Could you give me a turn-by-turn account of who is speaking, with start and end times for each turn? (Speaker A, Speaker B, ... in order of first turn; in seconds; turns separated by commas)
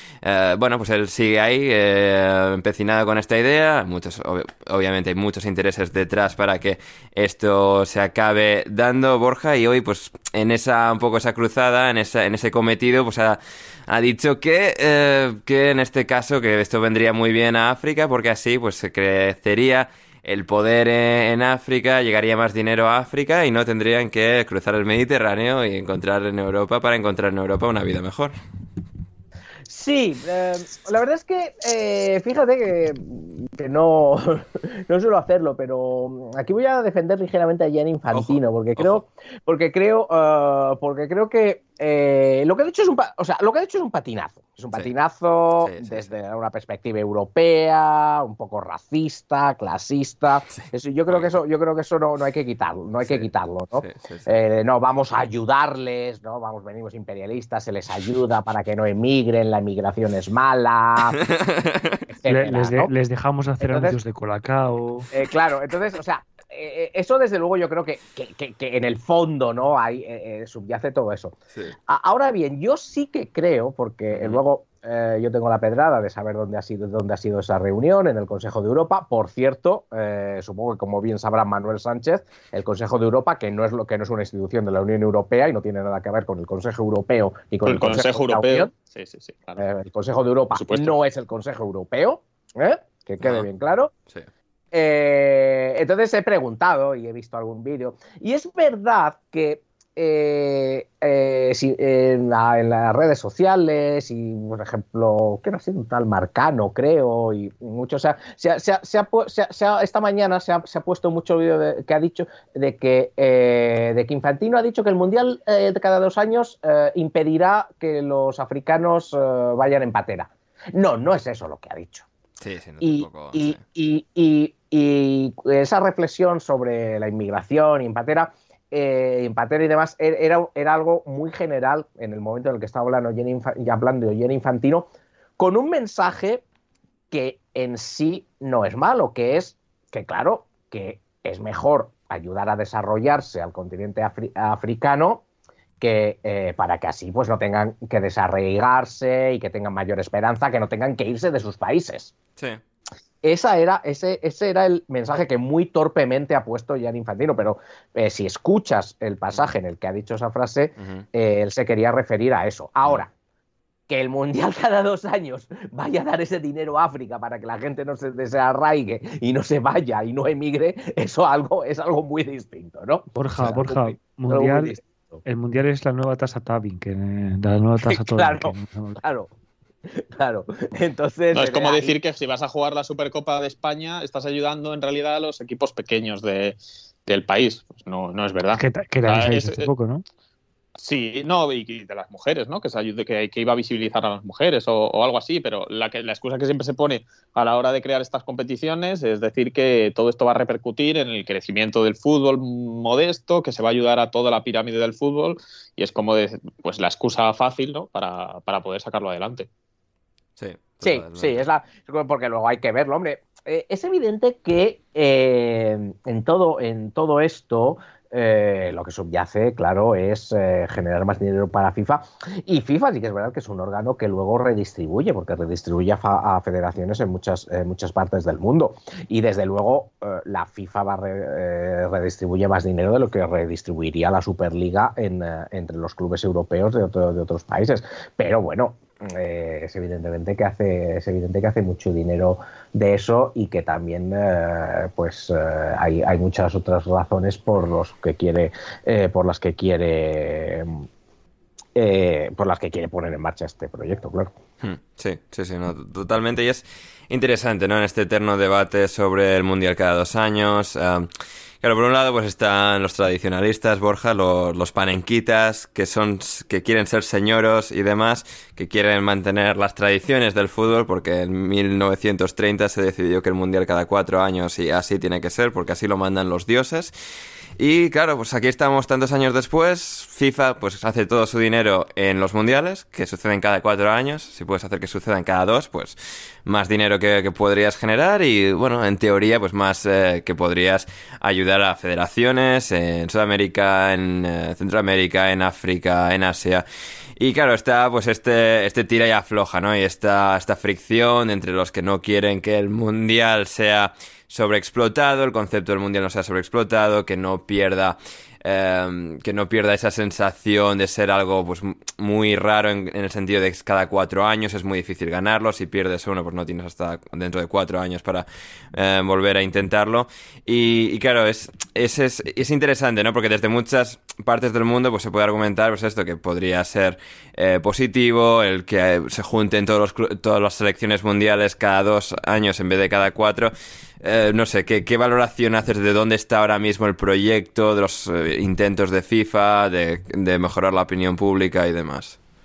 Speaker A: 0.2-28.3, Speaker B: 29.7-61.2, Speaker A: 38.1-39.0, Speaker A: 45.6-46.1, Speaker A: 50.5-51.3, Speaker A: 53.0-54.3, Speaker A: 61.2-62.1, Speaker B: 62.1-62.9, Speaker C: 62.3-65.1, Speaker B: 63.6-64.0, Speaker B: 65.1-71.3, Speaker B: 71.9-88.7, Speaker A: 74.1-74.4, Speaker D: 87.7-89.6, Speaker B: 89.6-93.9, Speaker D: 90.5-91.0, Speaker A: 93.2-93.5, Speaker B: 94.7-122.1, Speaker A: 122.4-123.6, Speaker B: 122.8-134.9, Speaker B: 135.4-136.4, Speaker B: 137.1-145.2, Speaker B: 145.8-152.1, Speaker B: 153.2-163.1, Speaker A: 160.8-161.1, Speaker B: 163.9-175.2, Speaker C: 173.2-179.0, Speaker B: 177.9-179.3, Speaker B: 180.0-181.9, Speaker D: 181.3-189.7, Speaker C: 188.6-190.1, Speaker D: 190.8-209.5, Speaker A: 210.4-211.5, Speaker B: 210.8-250.8, Speaker B: 251.8-254.3, Speaker A: 254.6-261.1, Speaker A: 261.6-276.9, Speaker A: 277.6-296.6, Speaker A: 297.2-342.2